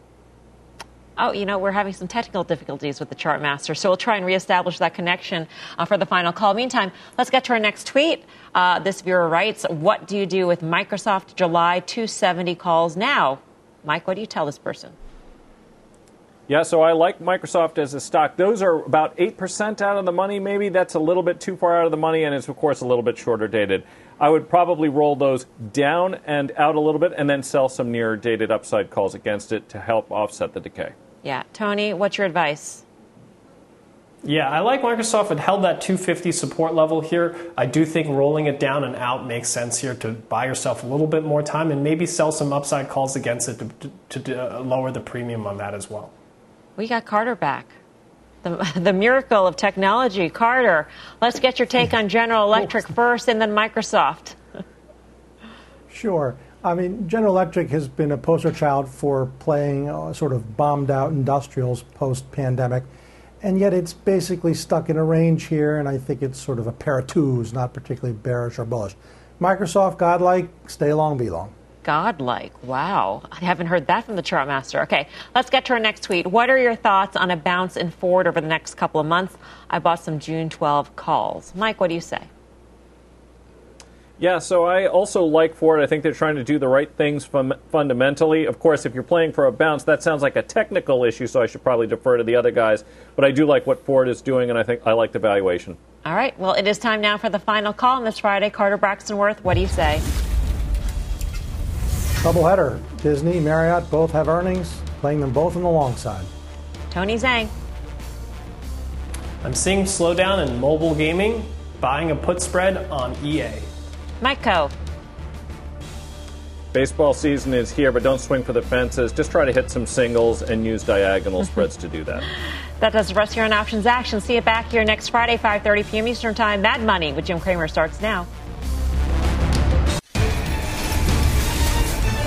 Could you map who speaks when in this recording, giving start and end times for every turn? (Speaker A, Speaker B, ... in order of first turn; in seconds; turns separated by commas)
Speaker A: 1.2-14.9, Speaker B: 16.5-30.9, Speaker A: 31.2-32.8, Speaker C: 34.2-46.1, Speaker A: 46.8-47.7, Speaker A: 48.4-54.4, Speaker D: 55.9-62.9, Speaker D: 63.4-71.5, Speaker A: 71.8-82.3, Speaker B: 84.2-95.8, Speaker A: 96.0-100.0, Speaker D: 102.2-106.3, Speaker A: 106.9-107.5, Speaker C: 109.4-113.7, Speaker A: 114.2-114.7, Speaker B: 116.7-122.3, Speaker A: 122.8-128.3